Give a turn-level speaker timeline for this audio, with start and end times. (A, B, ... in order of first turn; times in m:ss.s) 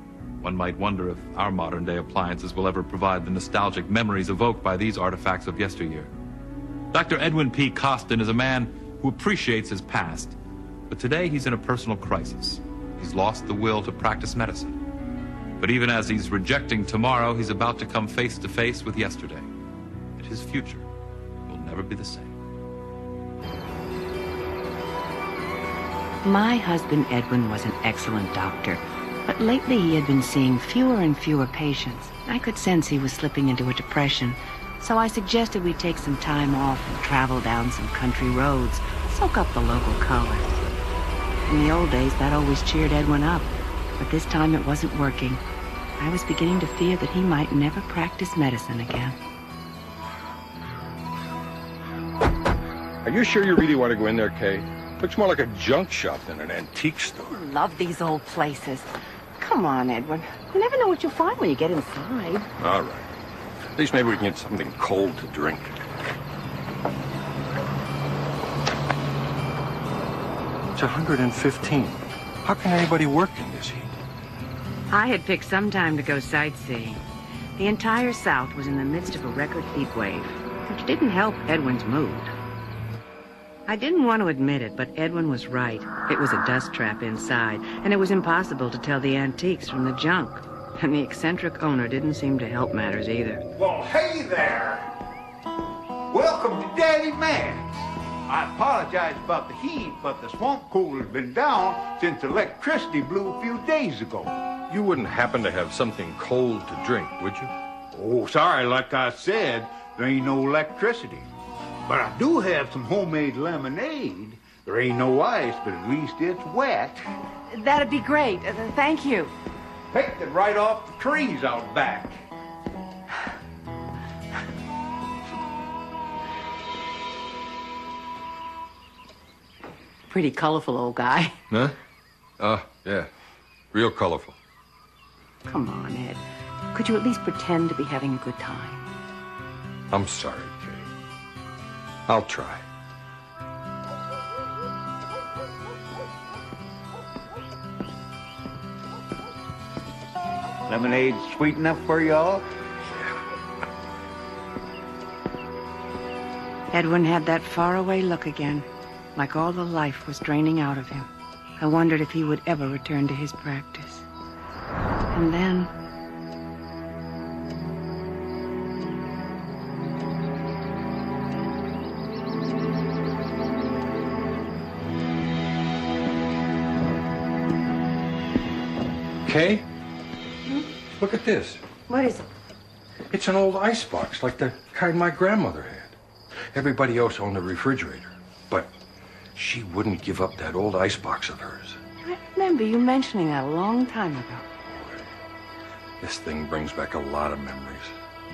0:00.4-0:06.1 A
0:06.9-0:10.4 A
0:10.9-0:14.8 A
0:15.6-0:19.5 A
0:20.2-0:20.9 A
0:21.5-0:22.3 A
0:26.2-0:40.6 B
0:41.5-0:45.4 B
0:46.0-0:49.2 B
0:53.0-0:57.4 C
0:57.3-1:02.5 B
1:02.6-1:03.1 C
1:03.8-1:05.8 C
1:10.8-1:14.0 C
1:14.9-1:17.0 B
1:17.6-1:22.3 B
1:23.7-1:33.5 B
1:33.6-1:34.9 D
1:36.1-1:44.4 D
1:44.7-1:47.5 C
1:47.9-1:51.3 D
1:51.9-1:57.0 D
1:57.5-1:59.4 B
1:59.9-2:02.2 D
2:10.1-2:11.4 B
2:11.5-2:11.8 C
2:12.4-2:13.1 C
2:13.7-2:14.4 C
2:15.4-2:18.9 B
2:19.9-2:20.9 C
2:22.1-2:22.6 C
2:30.7-2:32.5 D
2:36.7-2:44.1 B
2:45.1-2:45.7 B
2:59.3-2:59.7 C
3:01.0-3:01.6 C
3:01.9-3:02.3 B
3:03.1-3:06.0 C
3:06.5-3:08.7 C
3:09.4-3:11.8 C
3:12.0-3:14.5 B
3:14.7-3:15.1 C
3:16.0-3:17.9 C